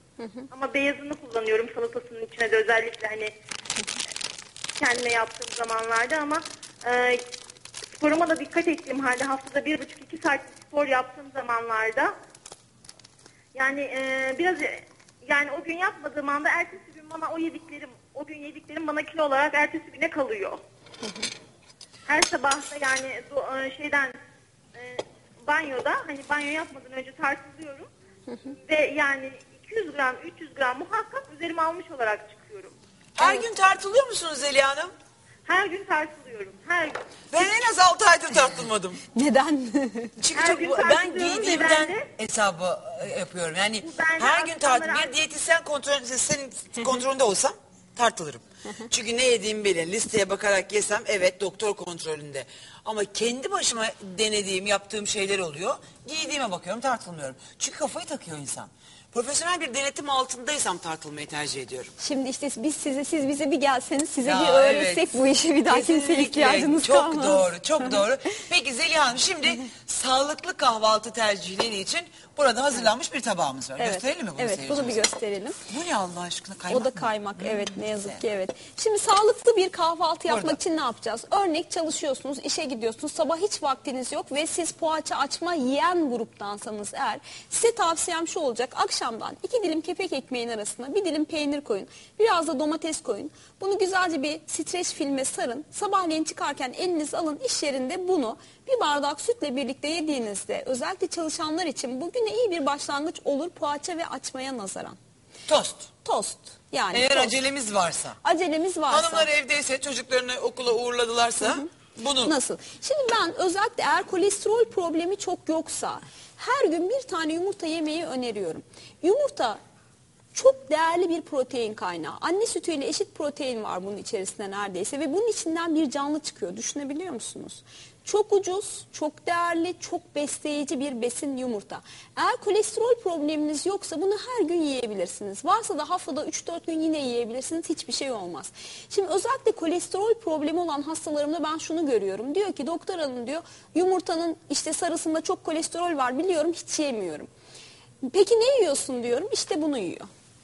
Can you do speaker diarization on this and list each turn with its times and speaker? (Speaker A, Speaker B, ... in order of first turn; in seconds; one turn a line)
Speaker A: 0.2-0.5
Speaker B: 0.5-3.3
Speaker B: 4.8-7.2
Speaker B: 7.9-12.1
Speaker B: 13.5-20.6
Speaker B: 22.1-24.1
Speaker B: 24.7-27.9
Speaker A: 28.3-28.6
Speaker B: 28.5-32.7
Speaker C: 33.2-34.9
Speaker A: 33.2-33.5
Speaker B: 35.5-37.1
Speaker C: 37.3-39.0
Speaker A: 39.0-40.2
Speaker C: 40.2-61.9
Speaker B: 40.3-42.1
Speaker B: 43.8-45.1
Speaker A: 62.0-68.0
Speaker C: 64.2-65.1
Speaker C: 65.7-75.0
Speaker A: 73.8-75.6
Speaker C: 75.7-78.2
Speaker A: 76.7-105.0
Speaker C: 80.3-80.6
Speaker C: 105.5-105.9
Speaker A: 106.0-107.3
Speaker C: 106.9-108.2
Speaker A: 108.2-109.3
Speaker C: 108.9-112.3
Speaker A: 111.4-119.6
Speaker A: 120.3-147.3
Speaker A: 148.0-150.1